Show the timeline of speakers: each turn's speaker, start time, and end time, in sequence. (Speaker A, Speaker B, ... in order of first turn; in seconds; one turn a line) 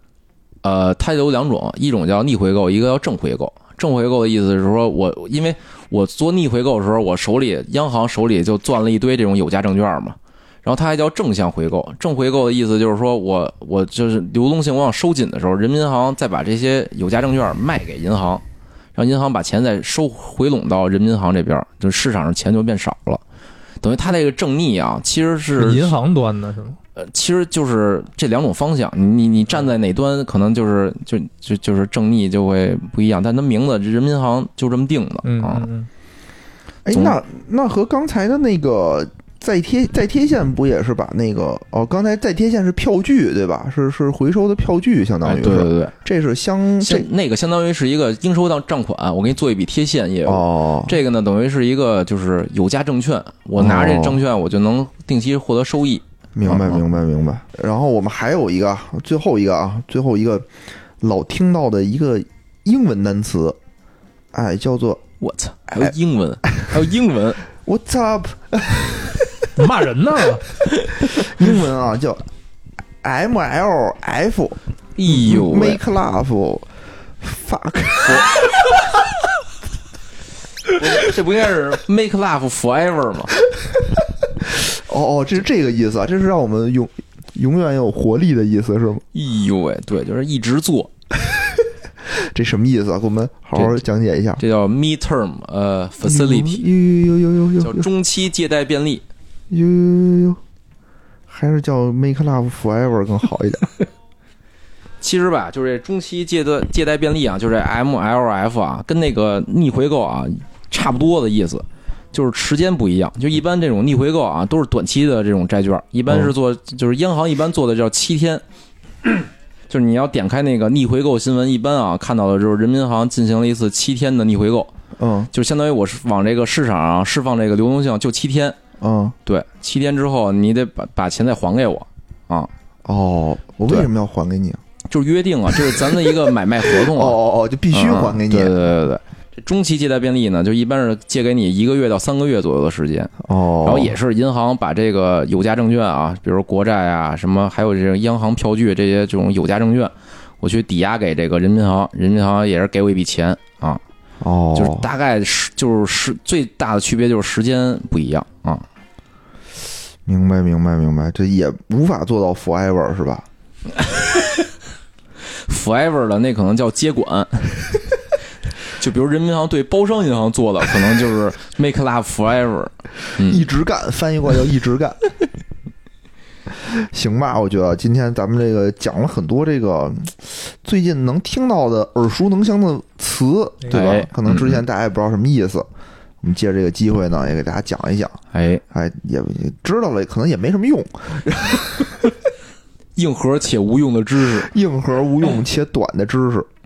Speaker A: 0.6-18.4
Speaker A: 18.9-23.2
Speaker A: 23.8-25.9
Speaker B: 25.6-26.8
Speaker A: 26.9-35.7
Speaker B: 35.2-35.9
Speaker C: 36.8-47.1
Speaker A: 36.9-37.2
Speaker A: 45.2-45.9
Speaker A: 46.8-56.8
Speaker C: 50.2-51.0
Speaker C: 53.5-54.2
Speaker C: 56.3-60.5
Speaker C: 61.0-63.6
Speaker C: 64.3-65.0
Speaker A: 65.2-67.4
Speaker C: 67.6-69.5
Speaker B: 69.5-70.6
Speaker C: 71.1-72.3
Speaker C: 73.0-78.4
Speaker A: 75.0-75.8
Speaker A: 80.7-83.3
Speaker C: 84.4-89.0
Speaker A: 89.1-90.9
Speaker C: 92.0-94.4
Speaker A: 94.4-96.6
Speaker C: 96.0-97.9
Speaker A: 97.6-99.0
Speaker C: 99.5-100.4
Speaker C: 101.3-103.7
Speaker A: 105.0-118.4
Speaker C: 116.1-116.3
Speaker A: 119.7-124.7
Speaker C: 125.0-125.3
Speaker A: 125.3-128.6
Speaker C: 128.8-129.2
Speaker A: 129.2-132.5
Speaker C: 132.8-134.6
Speaker A: 134.9-137.2
Speaker C: 136.7-138.6
Speaker A: 137.7-153.8
Speaker C: 143.2-143.9
Speaker C: 154.2-154.9
Speaker A: 154.5-158.6
Speaker C: 160.0-163.3
Speaker A: 165.4-167.8
Speaker A: 168.7-173.4
Speaker C: 173.2-175.0
Speaker C: 176.6-185.7
Speaker A: 183.7-184.6
Speaker C: 186.2-188.2
Speaker A: 188.3-188.6
Speaker C: 188.7-192.1
Speaker A: 192.9-194.5
Speaker C: 194.4-196.5